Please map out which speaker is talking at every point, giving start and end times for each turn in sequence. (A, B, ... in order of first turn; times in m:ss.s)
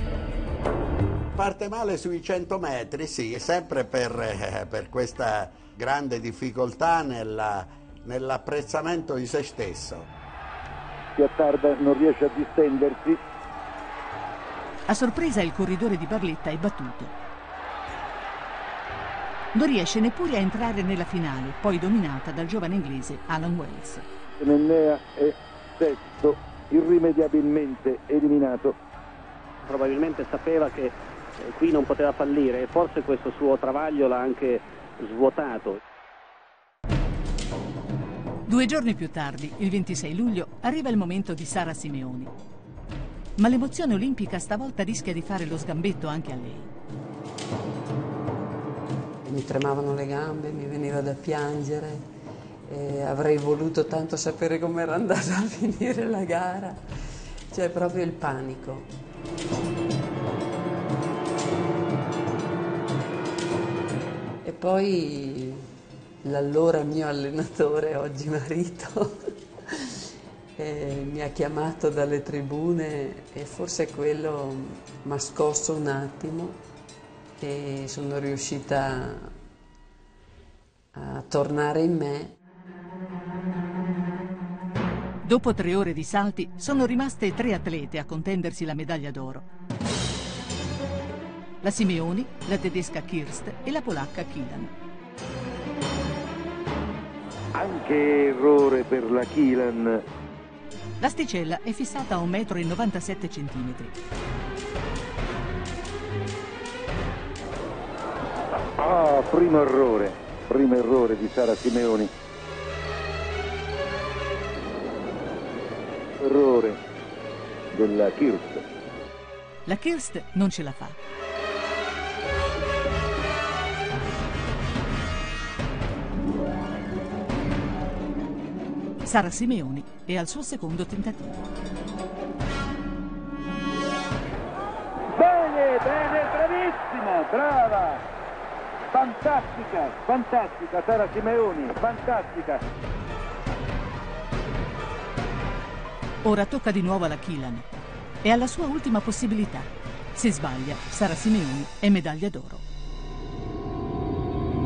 0:01.3-0:10.1 A
0:11.2-0:13.2 B
0:14.9-0:17.1 C
0:19.5-0:24.0 C
0:24.4-0:28.8 B
0:29.6-0:35.8 D
0:38.4-0:42.3 C
0:43.4-0:46.7 C
0:49.2-0:52.0 E
0:52.7-0:56.8 E
0:57.5-0:58.9 E
1:04.4-1:05.6 E
1:06.2-1:09.2 E
1:10.6-1:16.6 E
1:17.4-1:19.3 E
1:20.9-1:22.3 E
1:25.2-1:29.5 C
1:31.6-1:34.7 C
1:37.5-1:40.0 B
1:41.0-1:43.9 C
1:48.8-1:52.1 B
1:56.2-1:56.8 B
1:57.7-1:58.6 B
1:59.6-2:01.0 C
2:09.0-2:11.4 C
2:15.2-2:18.0 B
2:18.9-2:22.6 B
2:26.2-2:32.6 C